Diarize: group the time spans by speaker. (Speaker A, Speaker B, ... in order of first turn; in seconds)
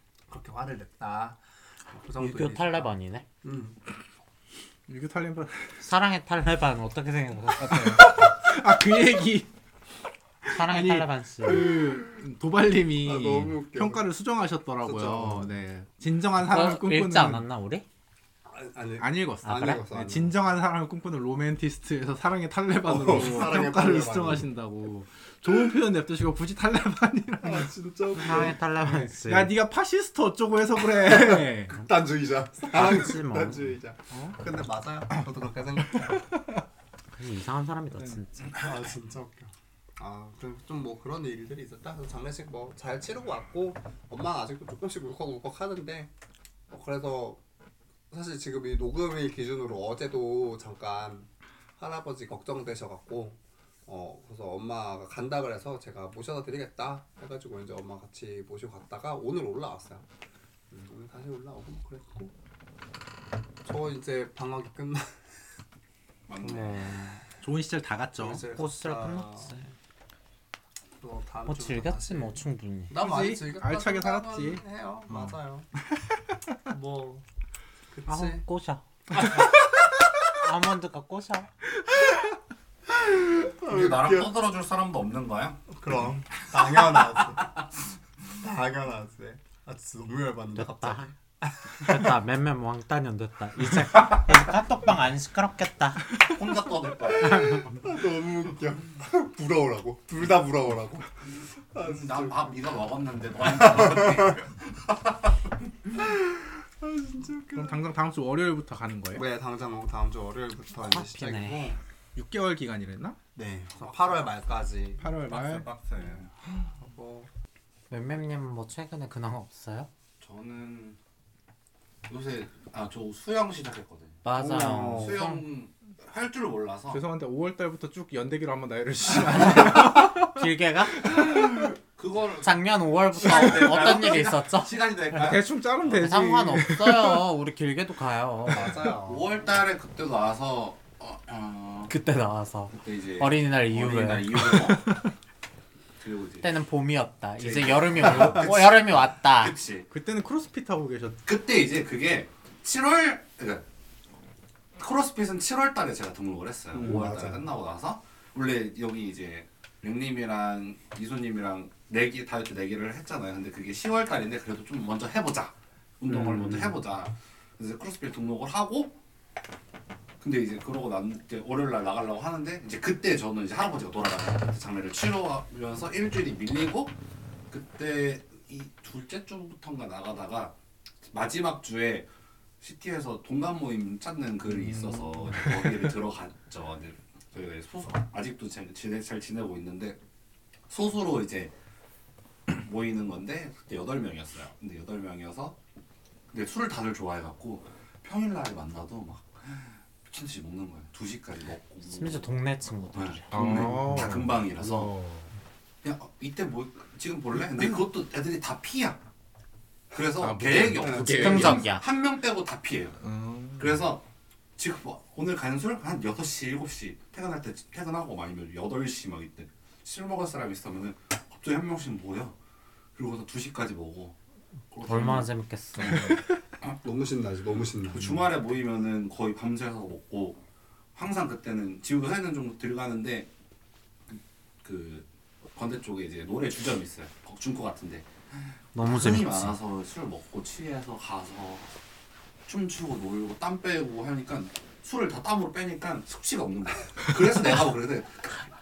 Speaker A: 0.3-2.9, 3.4-3.8, 13.0-14.1, 14.8-15.5, 18.5-20.4, 22.9-24.5, 27.4-28.6, 30.9-36.3, 38.5-46.1, 46.7-47.4, 48.1-60.0, 60.7-62.3, 63.6-65.1, 66.5-66.9, 68.2-69.5, 71.0-75.7, 76.7-77.2, 77.9-78.4, 83.2-84.3, 85.7-87.7, 88.3-92.2, 97.4-101.1, 101.7-102.5, 103.4-104.3, 106.8-107.8, 109.2-111.8, 113.3-117.3, 124.3-125.2, 138.5-139.3, 156.8-157.4, 210.8-211.5, 226.8-228.3
Speaker B: 2.2-3.2, 5.8-8.1, 10.5-11.7, 16.4-17.9, 28.1-29.6, 32.6-33.7, 37.1-38.6, 66.4-67.2, 68.5-69.7, 71.5-72.9, 78.1-79.4, 80.3-81.5, 90.5-91.2, 91.8-96.1, 97.2-97.7, 110.8-111.8, 117.9-119.9, 124.2-125.5, 129.8-131.1, 132.4-134.8, 135.8-138.9, 141.9-144.7, 146.4-149.6, 201.9-203.7, 211.0-211.8, 224.9-226.2, 238.8-239.5
Speaker C: 4.9-5.8, 7.6-9.5, 10.5-17.4, 19.0-27.7, 28.2-31.8, 35.9-36.6, 67.4-68.5, 73.0-75.3, 76.0-76.5, 107.5-109.2, 112.2-113.2, 115.0-115.7, 126.9-130.5, 131.0-131.7, 135.1-137.2, 144.7-145.0, 149.9-151.2, 156.9-157.3, 166.1-166.7, 184.6-185.9, 203.3-205.3, 210.2-211.7, 213.0-213.8
Speaker D: 66.3-66.9, 83.6-85.7, 86.7-87.0, 96.2-97.7, 101.8-105.5, 120.2-121.0, 122.1-127.0, 132.0-135.4, 139.1-141.9, 142.8-144.8, 146.0-146.5, 147.4-149.9, 151.2-153.6, 154.8-169.0, 170.2-177.0, 177.5-180.5, 181.1-182.1, 182.6-190.0, 190.7-191.5, 192.5-195.6, 196.3-202.3, 202.9-205.0, 205.8-209.0, 209.9-213.0, 213.6-214.0, 214.6-222.3, 223.0-224.2, 224.7-226.1, 227.9-230.4, 230.9-233.3, 234.1-238.1, 238.8-241.7, 242.5-248.5